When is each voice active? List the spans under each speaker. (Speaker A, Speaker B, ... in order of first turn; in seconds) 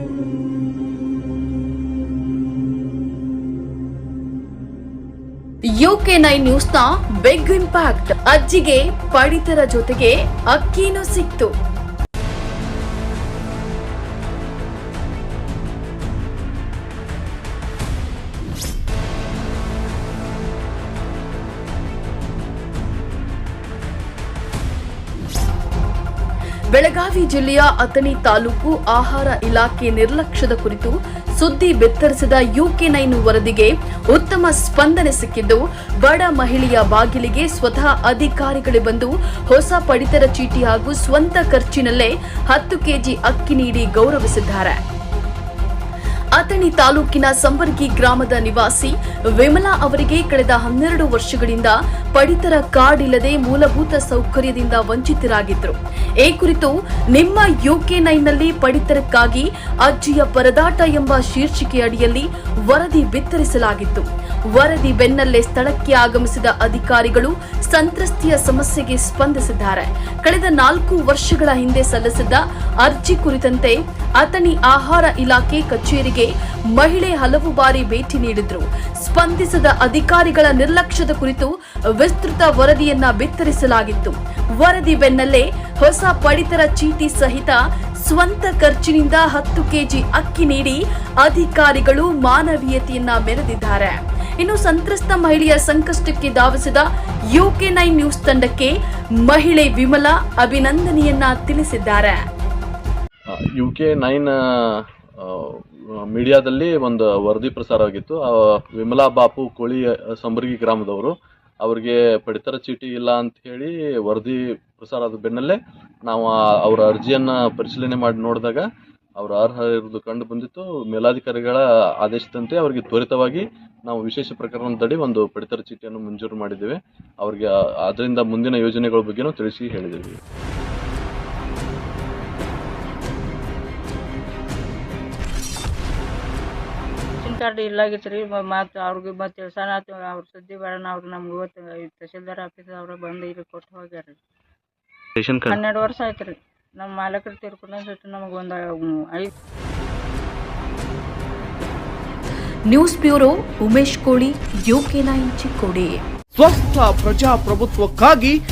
Speaker A: 5.8-11.5, 26.7-44.8, 46.4-102.2, 152.7-156.0
Speaker B: 103.3-130.2, 145.2-145.6
Speaker C: 137.2-144.2, 145.4-149.3
Speaker D: 156.3-158.4